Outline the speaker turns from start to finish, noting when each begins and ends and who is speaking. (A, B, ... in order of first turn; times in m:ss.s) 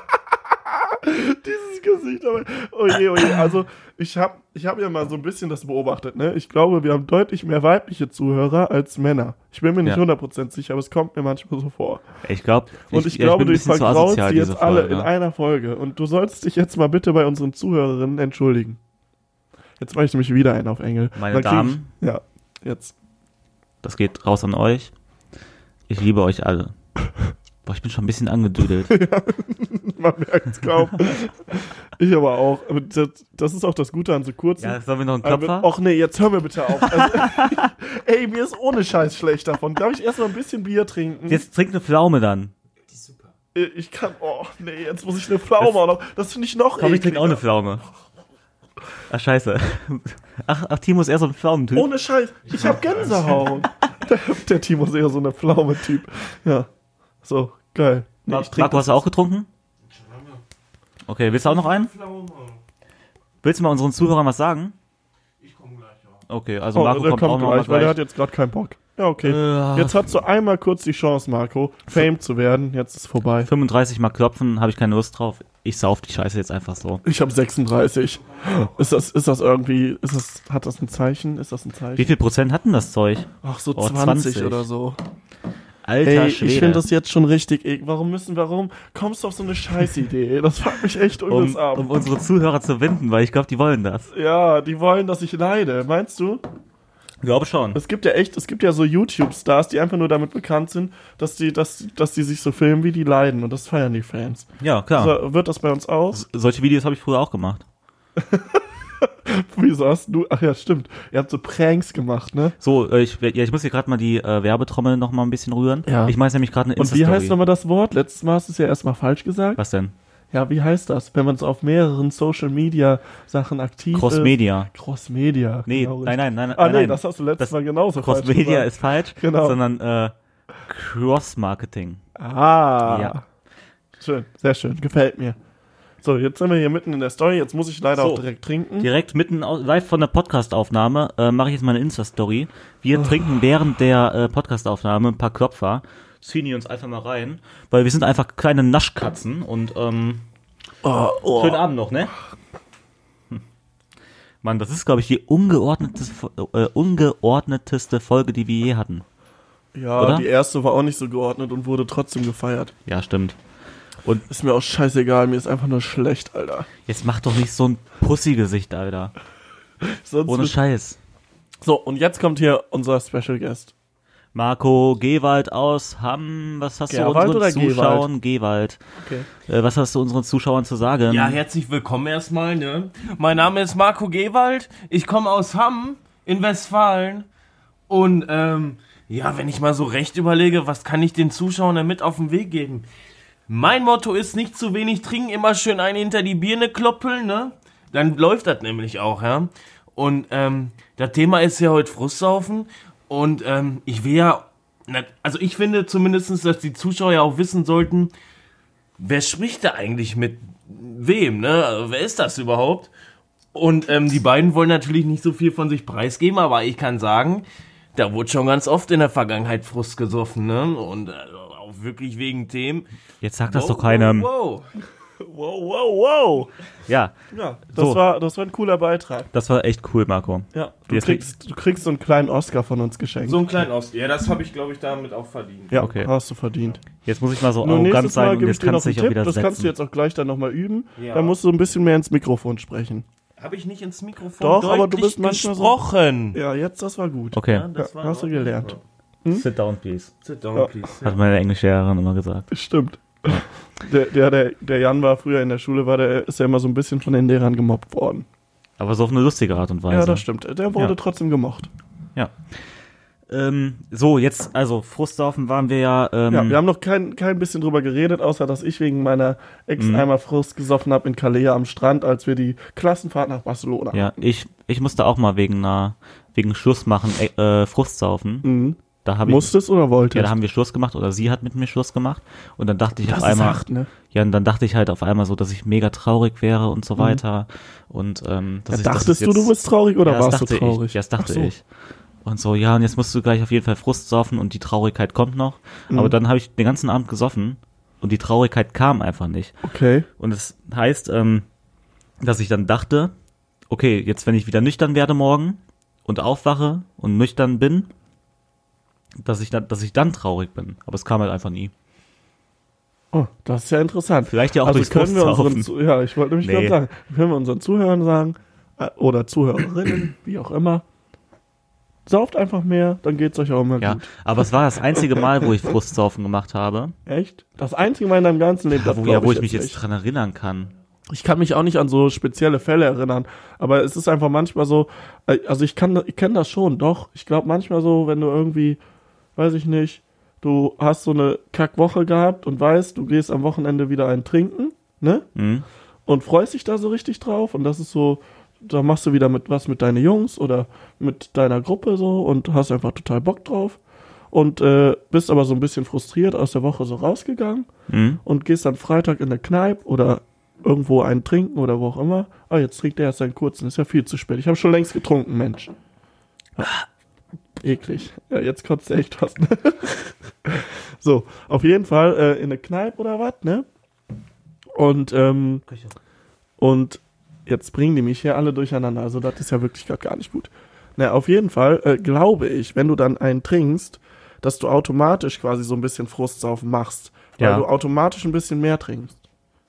0:00.7-0:12.0 A
0:12.2-0:15.1 B
0:12.9-0:18.8 A
0:19.8-0:22.9 A
0:21.1-0:21.9 B
0:23.8-0:24.9 B
0:25.9-0:26.7 B
0:27.6-0:28.9 B
0:28.9-0:41.4 A
0:34.6-0:35.7 B
0:36.8-0:37.6 B
0:41.3-0:42.5 B
0:43.5-0:47.4 A
0:46.8-0:47.8 B
0:49.1-0:51.9 B
0:51.7-0:56.7 A
0:57.2-0:59.0 A
0:58.3-0:59.5 B
0:59.9-1:00.4 C
1:01.0-1:01.9 B
1:01.4-1:02.6 C
1:03.4-1:04.7 B
1:05.4-1:06.2 C
1:06.3-1:08.0 B
1:06.7-1:13.5 A
1:09.2-1:10.0 B
1:13.4-1:17.0 B
1:17.0-1:22.1 A
1:22.0-1:24.6 B
1:23.4-1:25.0 A
1:25.8-1:26.8 B
1:26.0-1:31.9 A
1:31.3-1:34.1 B
1:34.1-1:36.4 A
1:37.2-1:37.8 B
1:37.7-1:46.2 A
1:44.6-1:45.2 B
1:46.1-1:47.6 B
1:48.2-1:52.5 A
1:52.6-1:57.4 B
1:55.8-1:56.2 A
1:56.8-1:59.6 A
1:59.6-1:59.9 B
2:00.3-2:09.6 A
2:03.9-2:04.7 B
2:05.7-2:12.0 B
2:12.2-2:13.2 A
2:12.8-2:13.2 B
2:14.0-2:15.4 A
2:16.0-2:18.9 A
2:18.0-2:18.2 B
2:18.8-2:30.2 B
2:30.8-2:31.6 A
2:31.3-2:32.1 B
2:34.4-2:39.0 B
2:39.7-2:42.7 A
2:40.0-2:40.3 B
2:42.8-2:43.4 B
2:44.3-2:46.7 A
2:46.8-2:49.1 B
2:49.8-2:50.6 A
2:50.3-2:51.0 B
2:51.6-2:53.7 A
2:54.3-2:58.8 B
2:56.9-2:58.1 A
2:59.0-2:59.3 A
2:59.4-3:01.4 B
3:01.1-3:07.3 C
3:07.9-3:12.8 C
3:13.5-3:28.1 C
3:29.0-3:32.9 C
3:33.5-3:42.9 C
3:43.2-3:44.3 B
3:43.5-3:44.7 C
3:45.2-3:46.5 A
3:46.9-3:47.1 B
3:47.3-3:49.3 A
3:47.7-3:48.0 B
3:49.3-3:51.2 B
3:50.5-3:53.4 A
3:53.2-3:55.8 C
3:55.7-3:56.8 A
3:55.8-3:56.1 B
3:57.0-3:59.7 B
3:57.6-4:03.0 A
4:01.0-4:01.3 C
4:03.4-4:06.4 C
4:04.4-4:05.8 A
4:06.3-4:09.4 A
4:07.3-4:07.7 B
4:07.5-4:08.8 C
4:09.3-4:10.1 B
4:10.2-4:11.2 C
4:11.0-4:12.5 B
4:12.5-4:18.2 A
4:18.8-4:20.2 B
4:19.9-4:21.7 A
4:23.3-4:26.6 B
4:26.3-4:34.1 A
4:29.8-4:30.0 B
4:33.9-4:38.5 B
4:38.4-4:40.3 A
4:39.0-4:39.5 B
4:40.1-4:51.6 B
4:43.0-4:43.9 A
4:48.7-4:51.5 A
4:52.2-4:59.6 B
4:55.9-4:56.1 A
4:59.6-5:00.1 A
5:00.2-5:01.4 B
5:02.2-5:03.1 B
5:03.7-5:07.9 B
5:09.2-5:11.7 B
5:13.1-5:20.8 A
5:14.3-5:15.7 B
5:16.4-5:16.8 B
5:22.0-5:24.1 A
5:23.8-5:26.9 B
5:27.0-5:29.8 A
5:28.7-5:30.7 B
5:31.1-5:38.8 A
5:39.4-5:45.3 A
5:45.3-5:45.6 B
5:46.0-5:53.8 A
5:54.3-5:57.7 A
5:57.9-5:58.2 B
5:58.2-6:05.7 A
6:07.6-6:13.6 A
6:14.7-6:15.6 A
6:16.6-6:29.2 A
6:27.4-6:27.6 B